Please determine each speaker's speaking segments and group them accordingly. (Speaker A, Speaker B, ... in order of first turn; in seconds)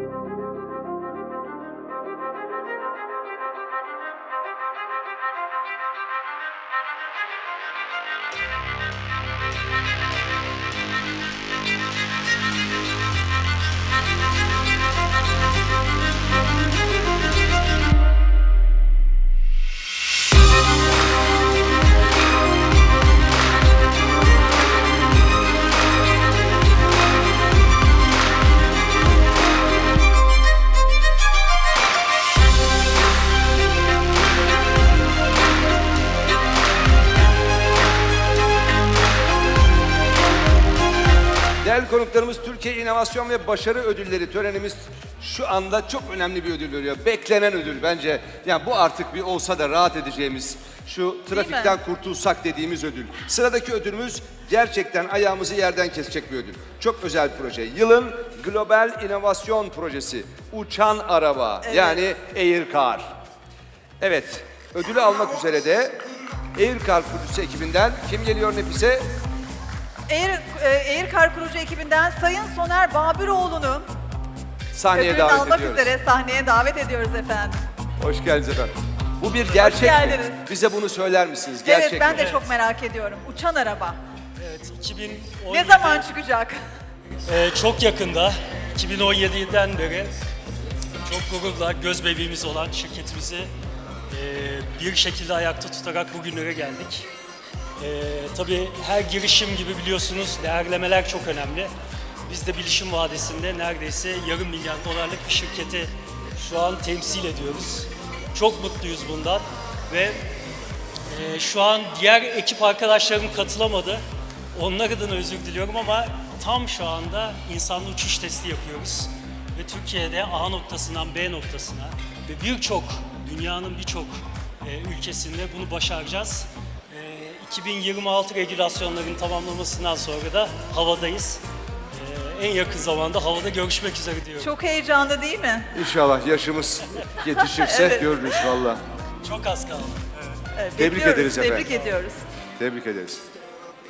Speaker A: 41.6-63.1, 64.0-66.0, 66.5-69.1, 74.7-75.9, 78.0-82.2, 135.7-138.8, 140.8-141.8, 142.6-143.2
Speaker B: 51.3-51.8, 61.6-62.0, 70.1-73.9, 74.9-77.6, 79.5-80.4, 81.6-84.0, 85.5-86.6, 134.4-135.7, 137.4-138.6, 140.6-142.2
Speaker C: 82.1-82.5, 84.4-86.1, 87.2-90.2, 91.0-93.5, 94.1-97.1, 97.8-101.7, 102.3-110.3, 111.1-114.0, 114.5-134.5, 139.2-140.4